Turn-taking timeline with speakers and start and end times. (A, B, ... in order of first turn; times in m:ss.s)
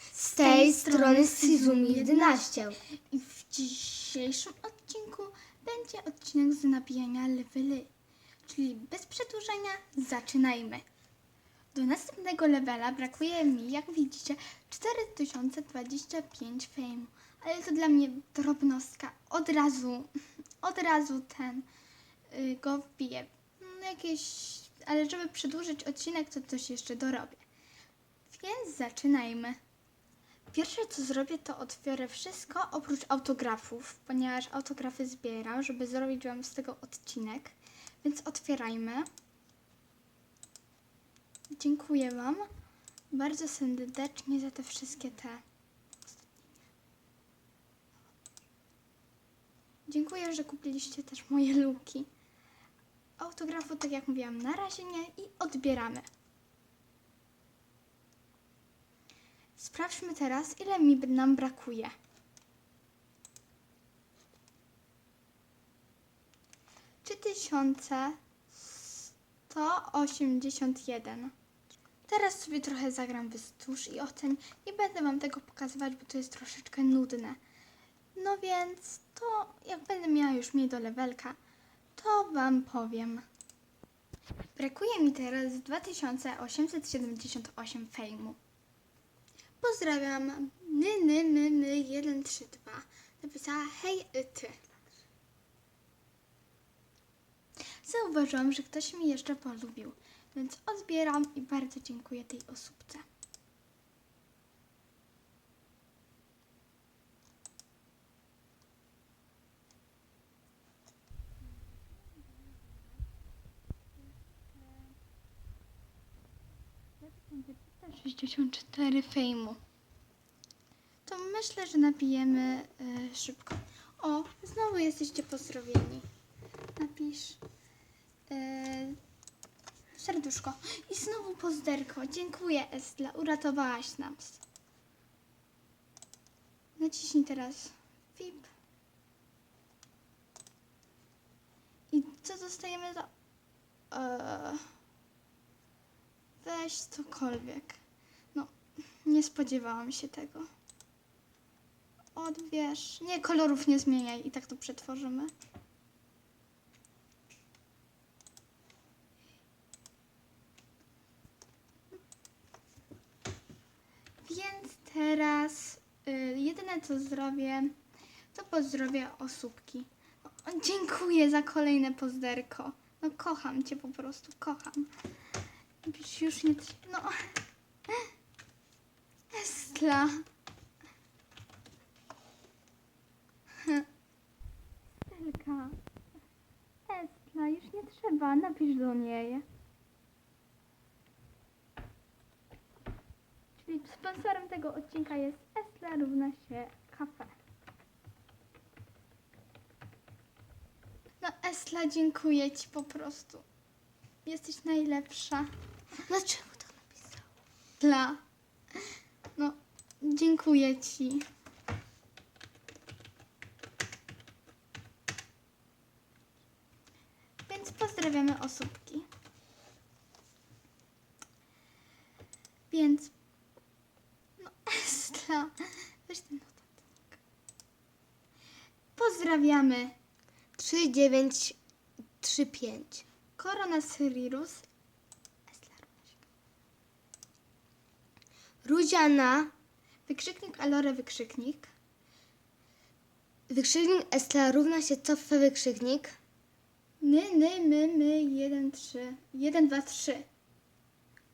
0:00.1-0:02.8 A
0:00.3-0:07.9 B
0:08.4-0:10.8 B
0:11.7-0:21.6 B
0:22.3-0:27.4 B
0:28.3-0:29.6 B
0:30.5-0:39.1 B
0:41.5-0:42.5 B
0:43.1-0:45.4 B
0:46.0-0:46.5 B
0:49.9-0:52.1 B
0:53.2-0:56.1 B
0:59.6-1:01.9 B
1:07.0-1:11.3 B
1:12.1-1:17.4 B
1:18.2-1:21.4 B
1:22.0-1:23.3 B
1:24.6-1:28.4 B
1:29.6-1:34.6 B
1:37.8-1:43.0 B
1:51.4-1:53.1 B
1:54.0-1:55.0 B
1:57.0-1:59.6 B
2:01.1-2:06.0 B
2:06.8-2:07.4 B
2:08.3-2:09.0 B
2:09.9-2:14.4 B
2:16.8-2:18.5 B
2:21.9-2:23.1 B
2:23.9-2:24.6 B
2:26.4-2:27.8 B
2:29.0-2:30.5 B
2:32.2-2:35.3 B
2:44.2-2:47.8 B
2:48.3-2:54.9 B
2:55.8-2:57.3 B
2:59.3-3:00.2 B
3:05.0-3:05.8 B
3:06.9-3:09.4 B
3:13.6-3:17.3 B
3:21.2-3:23.4 B
3:24.2-3:25.5 B
3:26.1-3:27.2 A
3:27.8-3:28.2 B
3:29.4-3:31.2 B
3:37.5-3:39.0 B
3:42.7-3:43.1 B
3:44.4-3:46.8 B
3:49.0-3:49.9 B
3:50.6-3:51.6 A
3:52.2-3:53.0 A
3:53.4-3:54.6 B
3:55.5-3:56.2 B
3:58.6-3:59.5 A
4:00.1-4:01.7 B
4:03.5-4:06.2 A
4:07.0-4:10.2 B